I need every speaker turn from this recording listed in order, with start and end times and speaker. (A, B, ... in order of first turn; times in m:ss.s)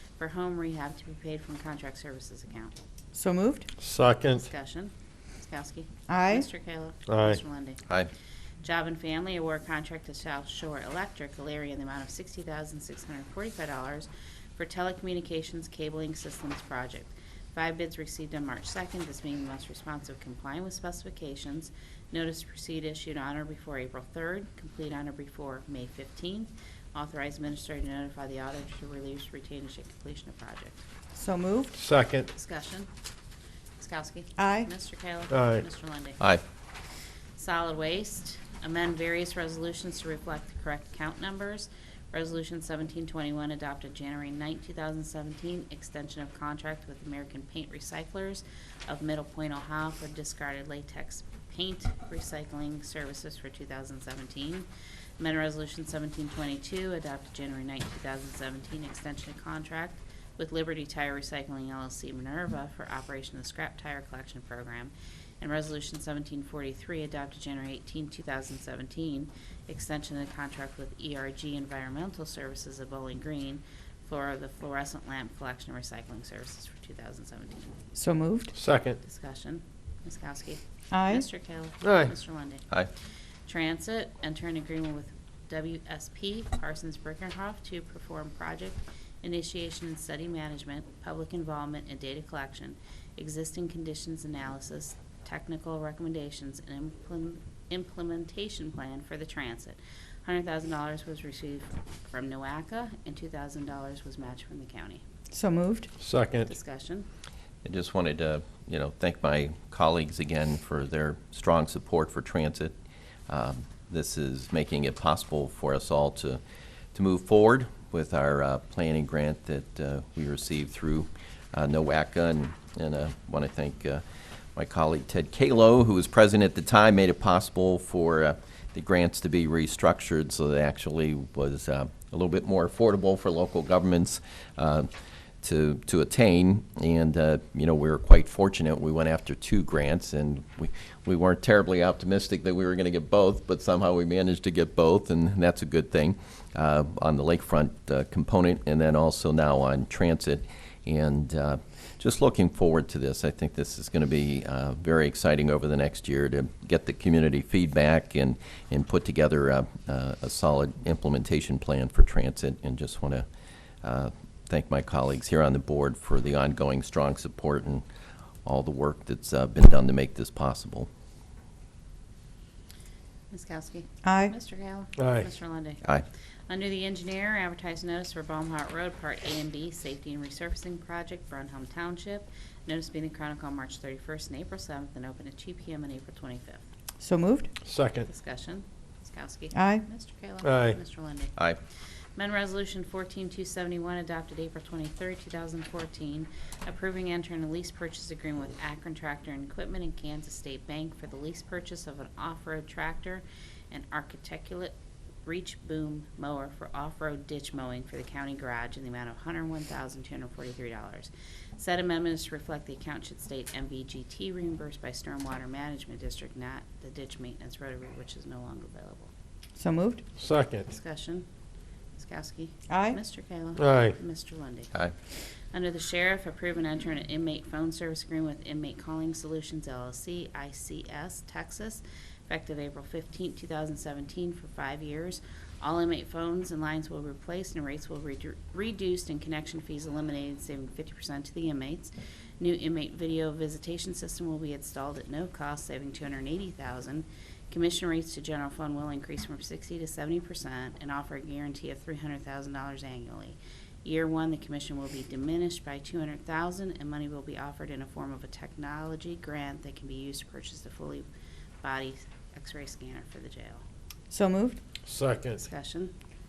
0:00.2-0:02.7 A
0:03.1-0:03.7 B
0:03.8-0:04.5 C
0:04.4-0:07.8 A
0:06.1-0:06.4 B
0:07.1-0:07.4 C
0:08.6-0:30.8 A
0:31.2-0:31.7 B
0:31.8-0:32.3 C
0:32.3-0:32.9 A
0:33.8-0:36.2 A
0:34.4-0:34.7 B
0:35.3-0:35.6 C
0:37.4-0:54.7 A
0:55.2-1:17.7 A
1:17.9-1:18.5 B
1:18.5-1:19.0 C
1:19.0-1:22.7 A
1:20.9-1:21.2 B
1:21.8-1:22.1 C
1:23.5-1:45.0 A
1:45.3-1:45.9 B
1:46.0-1:46.5 C
1:46.4-1:47.1 A
1:47.6-1:52.7 D
1:53.3-1:56.4 D
1:56.9-2:04.0 D
2:04.6-2:14.9 D
2:15.4-2:43.2 D
2:43.8-2:47.8 D
2:48.4-2:50.9 D
2:53.3-2:55.8 A
2:54.0-2:54.3 B
2:55.0-2:55.3 C
2:56.5-3:06.6 A
3:07.0-3:07.5 B
3:07.6-3:08.1 C
3:08.0-3:11.4 A
3:09.5-3:09.8 B
3:10.4-3:10.8 C
3:12.2-3:24.7 A
3:25.2-3:39.1 A
3:39.6-3:40.0 B
3:40.2-3:40.7 C
3:40.7-3:41.2 A
3:42.0-3:44.7 A
3:42.7-3:43.0 B
3:43.6-3:44.0 C
3:45.5-4:21.0 A
4:21.6-4:23.6 A
4:24.1-4:24.6 B
4:24.8-4:25.4 C
4:25.4-4:25.9 A